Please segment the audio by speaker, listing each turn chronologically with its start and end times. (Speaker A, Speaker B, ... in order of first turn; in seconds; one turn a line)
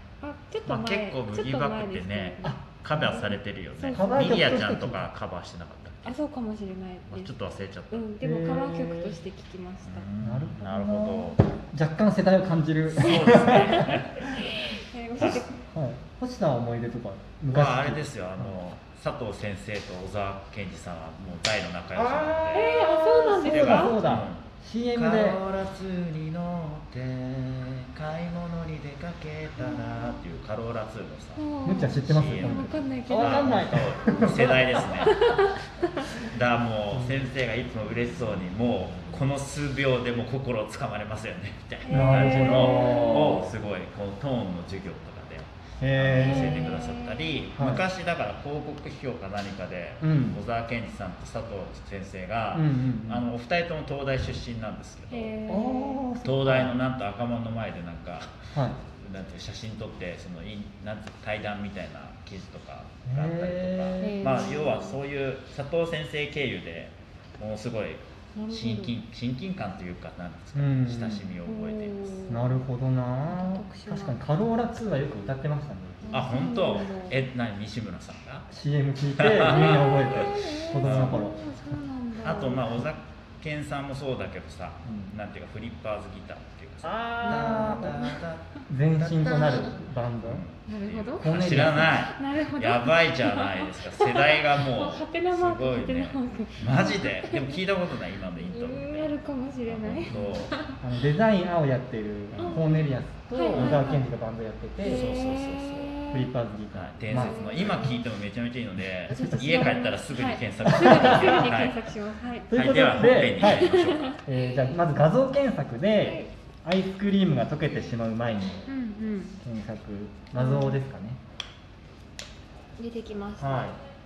Speaker A: 0.2-4.6
Speaker B: 0.7-6.2
Speaker C: 2.4-3.3
Speaker C: 3.9-5.1
Speaker A: 6.0-10.1
Speaker B: 7.1-8.1
Speaker C: 8.2-9.2
Speaker B: 9.8-11.4
Speaker C: 10.2-13.9
Speaker B: 12.9-14.3
Speaker A: 13.2-15.6
Speaker B: 15.2-15.4
Speaker C: 15.2-18.5
Speaker B: 17.5-22.7
Speaker C: 21.9-25.4
Speaker A: 22.5-24.0
Speaker B: 23.4-35.2
Speaker A: 29.6-30.2
Speaker A: 31.4-36.1
Speaker C: 31.6-34.9
Speaker B: 36.2-55.3
Speaker C: 36.9-37.2
Speaker A: 41.8-43.4
Speaker C: 41.9-43.5
Speaker C: 45.8-46.8
Speaker A: 46.2-47.3
Speaker C: 47.5-47.8
Speaker C: 50.0-50.4
Speaker C: 52.5-53.3
Speaker A: 55.1-56.0
Speaker C: 55.5-56.8
Speaker B: 56.2-72.2
Speaker C: 58.5-58.8
Speaker C: 63.1-64.5
Speaker A: 64.0-65.0
Speaker A: 68.3-69.0
Speaker C: 70.5-71.3
Speaker A: 71.4-72.6
Speaker C: 72.3-76.4
Speaker A: 73.3-74.2
Speaker A: 76.1-77.2
Speaker B: 76.1-78.5
Speaker C: 78.5-81.4
Speaker B: 79.2-81.3
Speaker A: 79.4-82.7
Speaker B: 82.2-99.1
Speaker C: 84.8-85.2
Speaker C: 86.8-88.0
Speaker A: 87.2-88.2
Speaker C: 88.7-90.4
Speaker A: 89.3-89.7
Speaker A: 90.7-91.3
Speaker C: 91.2-92.0
Speaker A: 91.9-97.6
Speaker A: 98.4-100.8
Speaker B: 99.7-100.5
Speaker C: 100.8-105.1
Speaker B: 102.3-102.7
Speaker A: 102.4-104.1
Speaker B: 103.5-103.8
Speaker A: 104.8-106.3
Speaker B: 104.8-106.0
Speaker C: 106.1-107.9
Speaker B: 106.7-111.8
Speaker A: 107.1-108.0
Speaker A: 109.1-114.2
Speaker C: 110.6-111.5
Speaker C: 112.5-118.7
Speaker B: 112.5-114.2
Speaker A: 116.0-116.3
Speaker A: 118.7-119.4
Speaker C: 119.4-121.2
Speaker A: 120.3-120.8
Speaker A: 122.8-123.7
Speaker C: 123.4-123.8